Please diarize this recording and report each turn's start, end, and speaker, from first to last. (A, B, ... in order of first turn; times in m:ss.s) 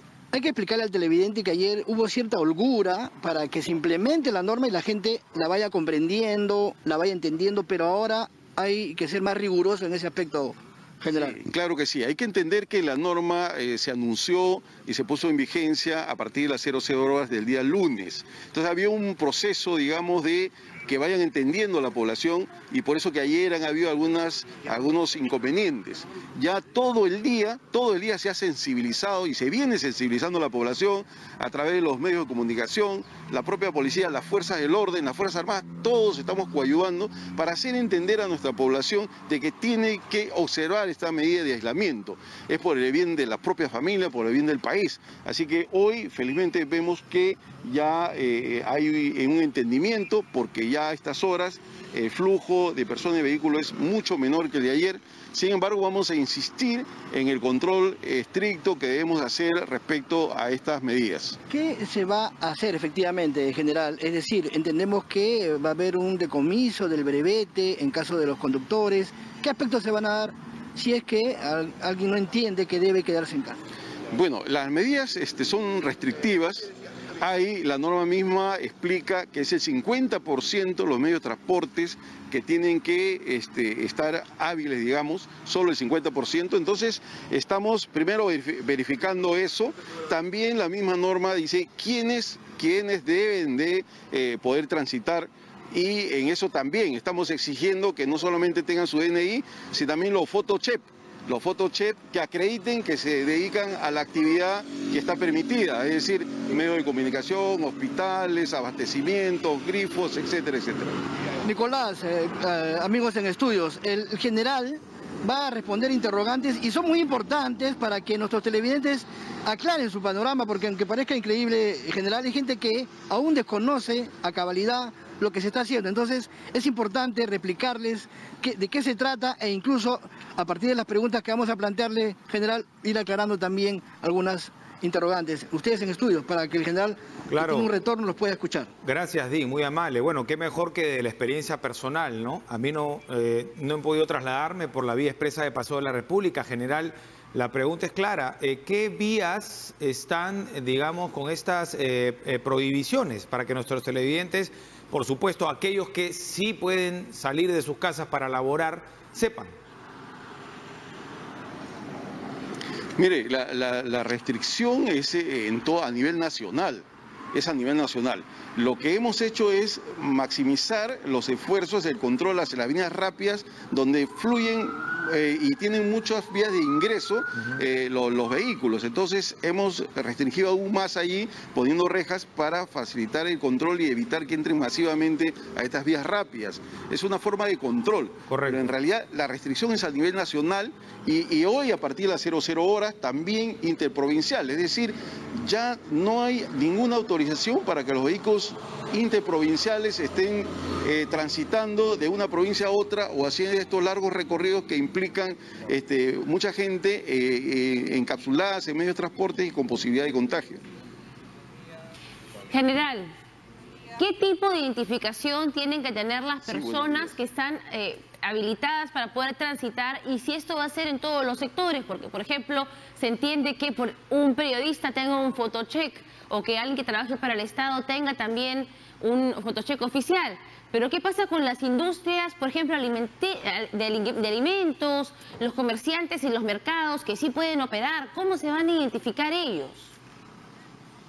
0:00.3-0:11.4 A
0:11.1-1:01.4 B
1:01.5-1:13.6 A
1:14.1-1:51.0 B
1:51.4-2:18.7 A
2:17.3-2:17.7 C
2:18.8-2:39.6 C
2:43.0-3:30.6 B
3:08.3-3:08.7 C
3:32.5-3:33.1 D
3:34.0-4:00.0 D
3:36.4-3:37.2 B